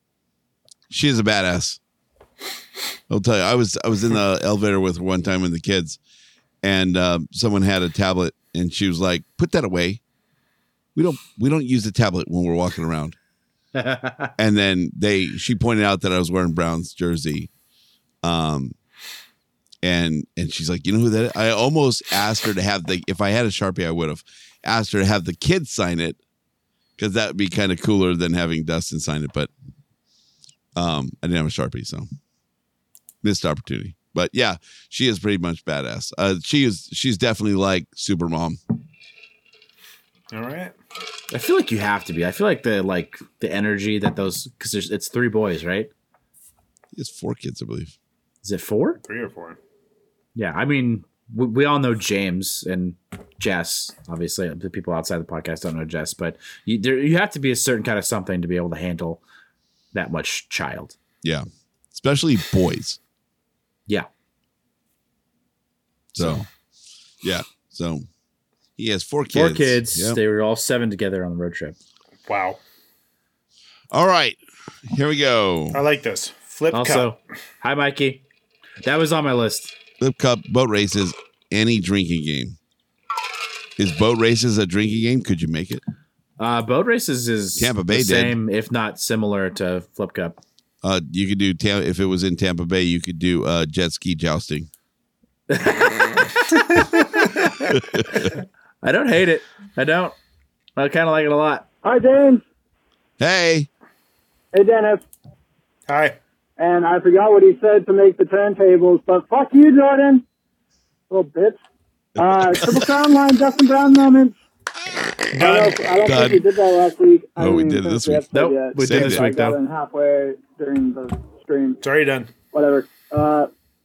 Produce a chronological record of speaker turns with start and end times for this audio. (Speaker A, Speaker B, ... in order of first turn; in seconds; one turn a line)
Speaker A: 0.9-1.8
Speaker A: 3.1-6.0
Speaker A: 6.6-10.0
Speaker A: 10.9-13.2
Speaker B: 13.7-14.3
Speaker A: 14.4-17.5
Speaker A: 18.2-18.7
Speaker A: 19.8-26.2
Speaker A: 27.0-29.5
Speaker A: 30.8-32.1
Speaker A: 33.2-38.6
Speaker C: 40.3-40.7
Speaker B: 41.3-45.9
Speaker A: 46.9-47.9
Speaker B: 48.4-49.0
Speaker C: 49.0-49.6
Speaker B: 50.4-59.2
Speaker B: 59.9-61.0
Speaker A: 61.2-63.0
Speaker A: 66.1-66.5
Speaker A: 67.2-68.0
Speaker A: 68.8-70.2
Speaker B: 69.3-71.8
Speaker C: 72.3-72.6
Speaker A: 73.9-75.8
Speaker C: 75.7-77.1
Speaker B: 76.7-78.2
Speaker B: 78.8-79.8
Speaker A: 80.0-82.6
Speaker A: 83.8-85.8
Speaker B: 86.4-90.4
Speaker A: 87.6-88.4
Speaker A: 90.8-94.7
Speaker B: 95.5-96.2
Speaker A: 97.8-98.3
Speaker B: 98.8-100.2
Speaker B: 100.8-101.7
Speaker D: 101.8-102.4
Speaker A: 103.2-103.7
Speaker D: 104.5-105.0
Speaker C: 105.9-106.2
Speaker D: 106.6-110.2
Speaker D: 111.1-111.6
Speaker D: 112.2-114.3
Speaker C: 115.3-116.0
Speaker D: 115.4-121.8
Speaker A: 116.0-116.4
Speaker A: 117.4-118.2
Speaker B: 118.3-119.6
Speaker A: 118.8-119.2
Speaker C: 121.8-122.3
Speaker D: 122.5-123.5